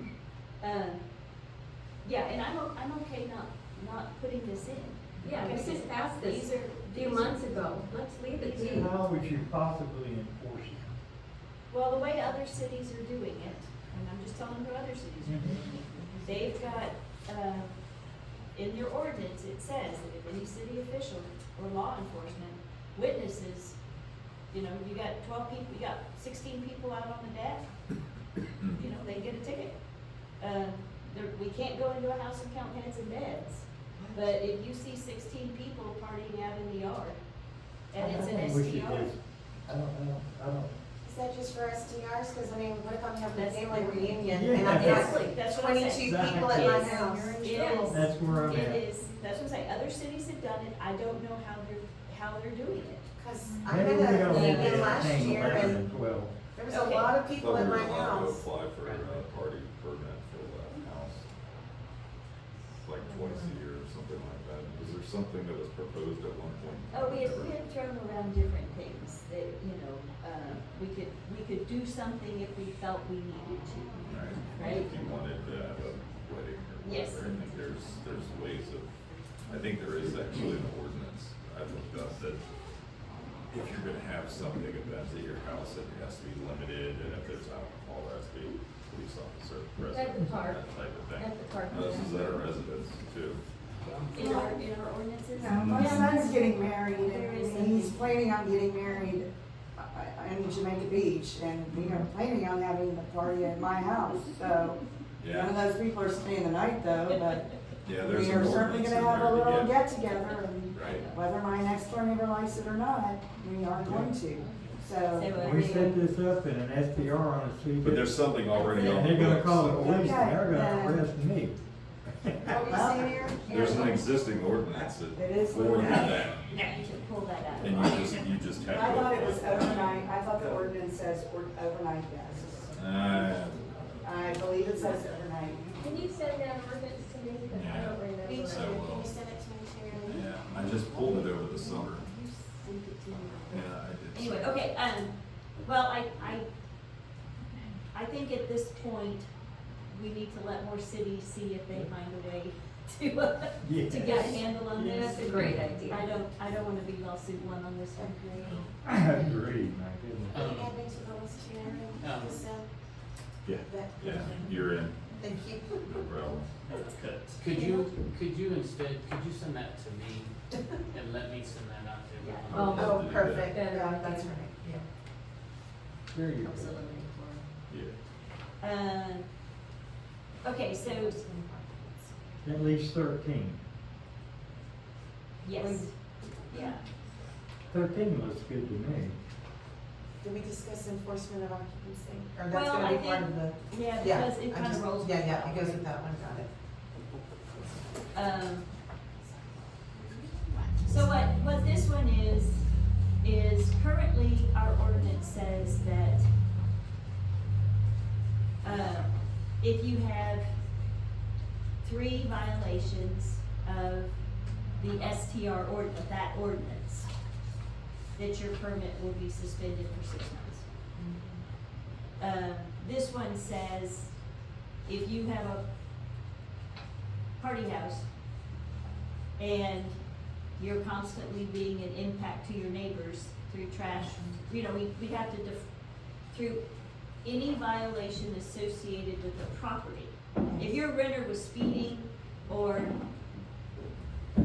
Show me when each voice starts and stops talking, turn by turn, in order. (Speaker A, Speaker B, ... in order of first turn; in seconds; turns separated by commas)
Speaker A: 0.6-1.0, Speaker A: 2.0-8.9, Speaker B: 5.2-8.9, Speaker C: 8.7-11.0, Speaker A: 11.7-17.8, Speaker C: 15.2-15.7, Speaker A: 18.6-23.8, Speaker A: 24.5-27.7, Speaker A: 28.8-29.8, Speaker A: 30.4-37.2, Speaker A: 37.9-39.1, Speaker C: 38.0-40.8, Speaker D: 41.0-48.1, Speaker A: 43.3-53.1, Speaker C: 44.3-45.3, Speaker C: 45.9-47.2, Speaker C: 47.9-48.8, Speaker D: 53.2-55.8, Speaker C: 53.7-56.4, Speaker A: 54.1-55.2, Speaker D: 56.5-58.5, Speaker A: 56.7-57.2, Speaker E: 57.3-61.3, Speaker F: 58.8-59.2, Speaker E: 62.8-67.6, Speaker A: 66.9-75.1, Speaker E: 74.1-82.4, Speaker A: 76.8-77.6, Speaker E: 83.5-93.4, Speaker B: 89.9-90.6, Speaker B: 91.2-92.5, Speaker F: 93.9-94.1, Speaker A: 94.0-98.2, Speaker G: 95.4-104.8, Speaker E: 95.4-96.2, Speaker E: 101.7-102.1, Speaker E: 105.2-105.6, Speaker G: 105.3-107.4, Speaker E: 107.8-109.8, Speaker G: 108.0-116.1, Speaker E: 110.7-111.1, Speaker A: 110.8-111.1, Speaker C: 113.8-114.1, Speaker A: 115.1-116.1, Speaker C: 115.3-121.6, Speaker E: 117.8-120.0, Speaker A: 118.7-119.0, Speaker G: 119.8-121.0, Speaker C: 122.2-122.6, Speaker D: 122.5-124.0, Speaker A: 122.7-123.2, Speaker G: 122.7-123.8, Speaker E: 123.4-126.7, Speaker G: 125.1-126.1, Speaker A: 126.5-128.2, Speaker E: 127.6-130.1, Speaker G: 128.7-132.7, Speaker E: 132.7-134.1, Speaker G: 134.0-135.7, Speaker B: 135.8-138.7, Speaker E: 137.5-139.2, Speaker D: 138.2-140.3, Speaker E: 140.1-142.1, Speaker A: 142.1-146.5, Speaker E: 143.5-144.6, Speaker A: 147.9-149.3, Speaker A: 149.9-158.3, Speaker C: 153.6-154.3, Speaker B: 154.1-156.1, Speaker C: 155.3-155.7, Speaker D: 158.0-158.6, Speaker F: 158.3-158.7, Speaker C: 158.8-160.5, Speaker F: 160.3-160.8, Speaker D: 160.4-162.7, Speaker F: 162.0-162.4, Speaker E: 163.4-165.1, Speaker D: 163.7-164.6, Speaker D: 165.1-165.8, Speaker E: 165.8-166.6, Speaker F: 166.7-170.3, Speaker A: 167.4-168.1, Speaker F: 170.9-173.0, Speaker A: 172.2-172.7, Speaker E: 172.5-173.5, Speaker B: 172.5-174.3, Speaker D: 172.8-174.8, Speaker C: 176.1-176.8, Speaker A: 176.5-177.4, Speaker E: 177.7-178.0, Speaker A: 178.6-179.3, Speaker A: 180.4-181.2, Speaker D: 180.8-182.3, Speaker C: 182.4-183.6, Speaker A: 185.4-185.9, Speaker D: 185.6-185.9, Speaker A: 186.5-186.8, Speaker C: 187.7-189.2, Speaker D: 190.2-196.5, Speaker A: 192.5-195.9, Speaker A: 198.1-198.7, Speaker A: 200.8-202.7, Speaker A: 203.2-206.3, Speaker A: 208.6-210.5, Speaker A: 211.8-214.2, Speaker A: 214.8-217.1, Speaker A: 218.2-220.7, Speaker D: 221.0-221.4, Speaker A: 222.2-224.1, Speaker A: 224.9-225.6, Speaker A: 227.4-228.1, Speaker A: 229.4-230.0, Speaker A: 230.6-235.7, Speaker A: 236.3-236.6, Speaker A: 237.2-243.0